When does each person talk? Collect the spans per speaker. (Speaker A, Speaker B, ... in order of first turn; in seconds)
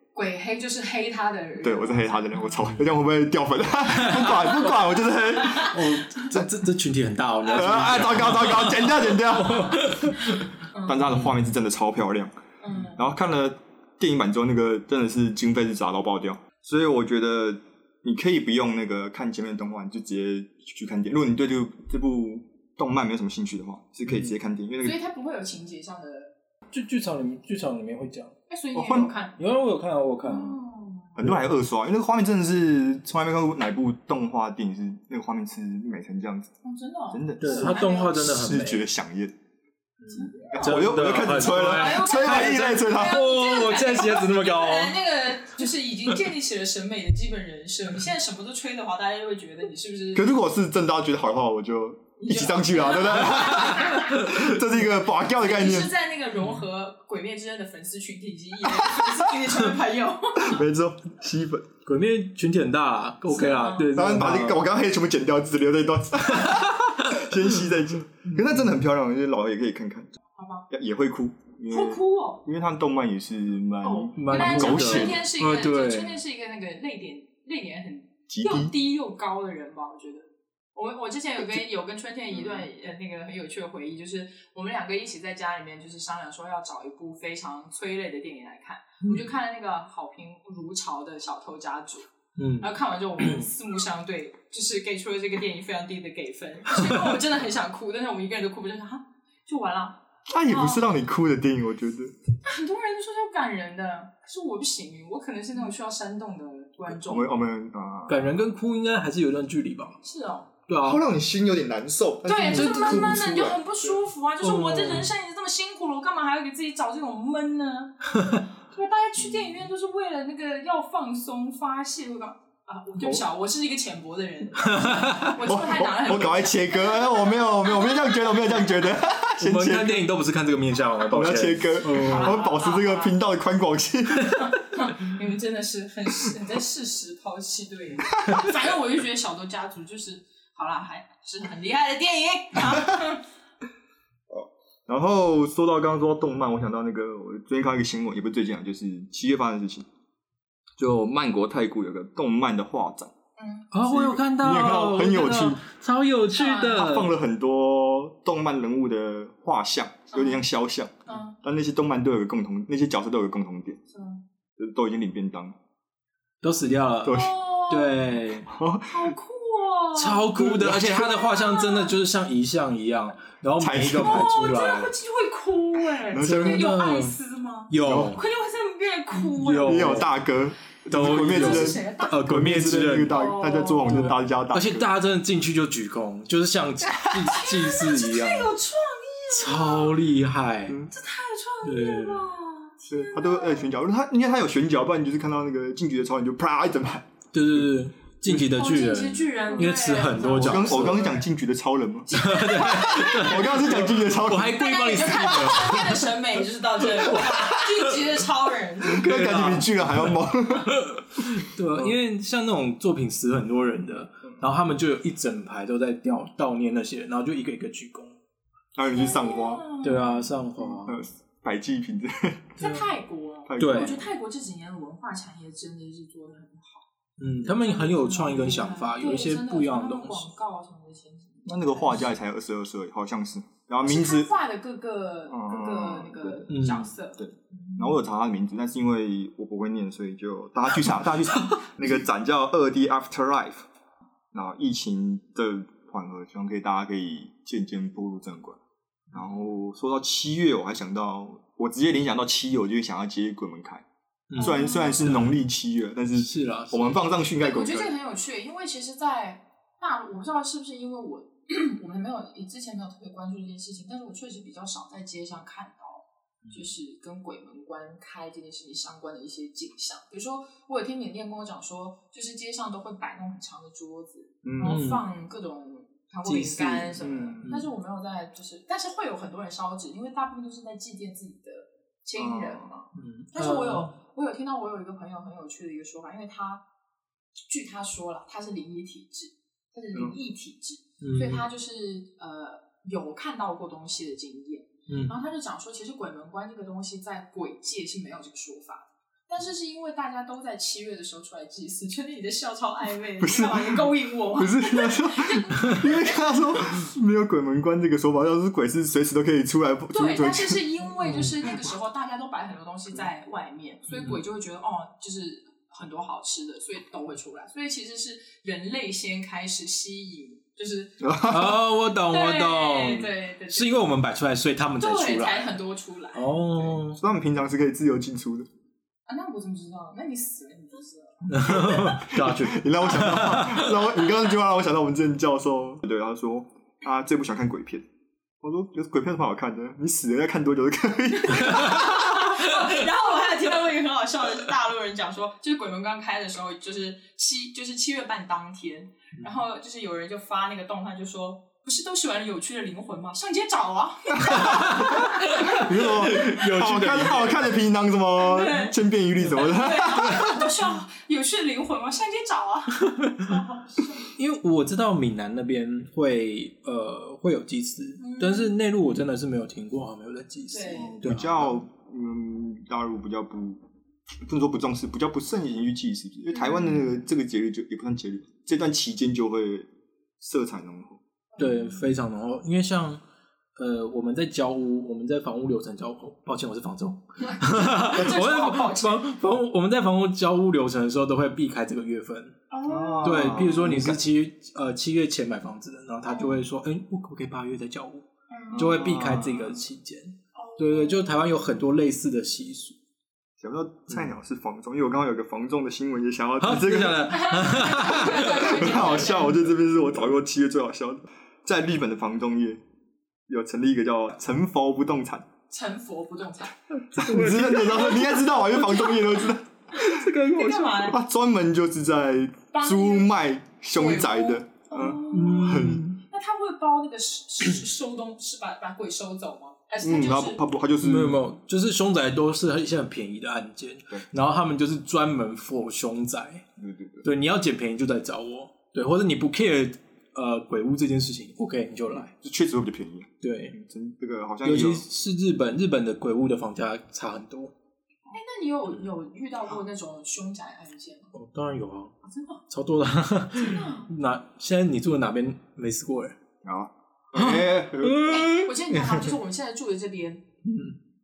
Speaker A: 0.1-2.6, 4.4-5.9, 10.7-11.2, 12.6-13.0, 24.8-26.3, 28.5-29.3, 30.2-31.2, 36.6-38.3, 40.1-50.3, 52.2-54.5, 55.4-60.6, 63.3-63.9, 70.3-70.7, 71.7-72.4, 73.8-92.1, 92.6-100.8, 102.4-107.4, 110.0-110.5, 112.2-128.9, 131.8-133.1, 134.4-143.2, 153.4-153.7, 156.3-156.9, 160.1-160.4, 161.1-161.4, 163.9-164.2, 167.1-168.1, 168.9-172.0, 173.9-180.1, 181.0-182.2, 183.1-184.1, 187.0-190.0, 190.9-193.7, 198.3-201.2, 202.1-209.2, 218.9-220.3, 222.6-226.8, 227.4-232.1, 233.8-238.0, 254.4-255.1, 257.4-286.6, 287.5-306.5, 309.9-321.0, 322.0-323.8, 324.8-326.8, 329.1-332.0, 341.2-355.7, 358.2-364.1, 368.0-368.6, 370.5-371.0, 376.3-376.9, 381.3-381.9, 387.2-389.1, 392.5-393.9, 396.1-396.4, 398.3-398.8, 400.3-401.2, 407.1-409.4, 415.5-416.6, 417.5-419.2, 420.0-421.0, 422.5-423.1, 423.7-430.4, 448.1-451.1, 452.0-452.4, 453.3-453.9, 457.9-460.2
Speaker B: 1.6-6.5, 7.5-10.0, 10.8-12.3, 12.9-25.0, 28.7-29.1, 31.1-36.5, 37.1-39.3, 40.4-43.2, 50.1-55.9, 60.4-61.7, 63.9-70.1, 70.7-75.2, 78.3-78.7, 100.3-102.1, 106.9-108.4, 110.8-114.0, 125.4-130.1, 131.1-134.5, 144.3-149.9, 150.8-153.1, 153.8-155.6, 156.7-163.8, 164.6-165.6, 167.0-167.3, 168.5-169.1, 170.3-170.9, 173.6-174.3, 176.1-176.7, 177.8-178.2, 179.6-184.9, 190.7-190.9, 192.9-197.1, 200.3-204.7, 208.8-210.8, 218.8-219.7, 220.6-222.6, 223.5-224.1, 231.4-234.3, 235.3-236.5, 237.2-243.7, 244.3-248.6, 249.1-253.8, 254.3-257.9, 274.4-274.8, 277.0-277.5, 282.2-282.7, 289.9-290.2, 303.2-310.6, 321.0-321.6, 327.0-328.5, 331.5-337.8, 338.4-342.3, 354.1-360.5, 370.7-373.6, 374.2-379.7, 380.2-381.0, 392.6-394.0, 398.5-399.6, 403.4-412.6, 413.3-415.2, 416.9-420.1, 420.6-425.9, 429.8-431.2, 436.6-437.1, 442.0-444.8, 456.4-458.4
Speaker C: 5.6-10.5, 26.7-28.3, 29.4-30.6, 37.4-38.9, 40.0-45.0, 53.4-53.9, 61.8-64.6, 66.4-67.5, 74.2-76.2, 92.4-93.5, 96.8-97.1, 108.1-110.0, 110.7-111.0, 112.5-113.4, 114.4-115.1, 118.1-118.4, 124.6-125.4, 129.4-132.4, 153.7-157.1, 166.4-168.5, 169.9-174.9, 176.2-177.2, 177.7-178.2, 179.1-180.1, 180.9-183.3, 183.8-188.5, 189.3-190.8, 191.6-192.3, 197.3-201.2, 202.1-206.1, 206.8-208.0, 208.9-210.2, 210.7-218.2, 219.8-221.0, 222.6-222.9, 223.6-224.0, 227.2-230.3, 236.5-236.9, 254.3-255.4, 256.1-256.9, 274.6-275.1, 276.2-277.7, 282.9-283.9, 291.0-291.5, 294.9-295.2, 311.0-311.4, 313.9-314.2, 321.3-325.5, 326.1-327.0, 331.3-333.7, 354.3-357.5, 363.0-363.3, 364.1-371.6, 381.4-383.0, 383.6-392.4, 393.0-402.8, 406.4-409.1, 416.9-418.8, 419.8-420.9, 425.1-426.0, 430.8-436.4, 437.0-442.1, 443.2-443.5, 444.4-447.5, 451.1-451.9, 452.5-456.2, 457.1-459.1, 460.4-460.8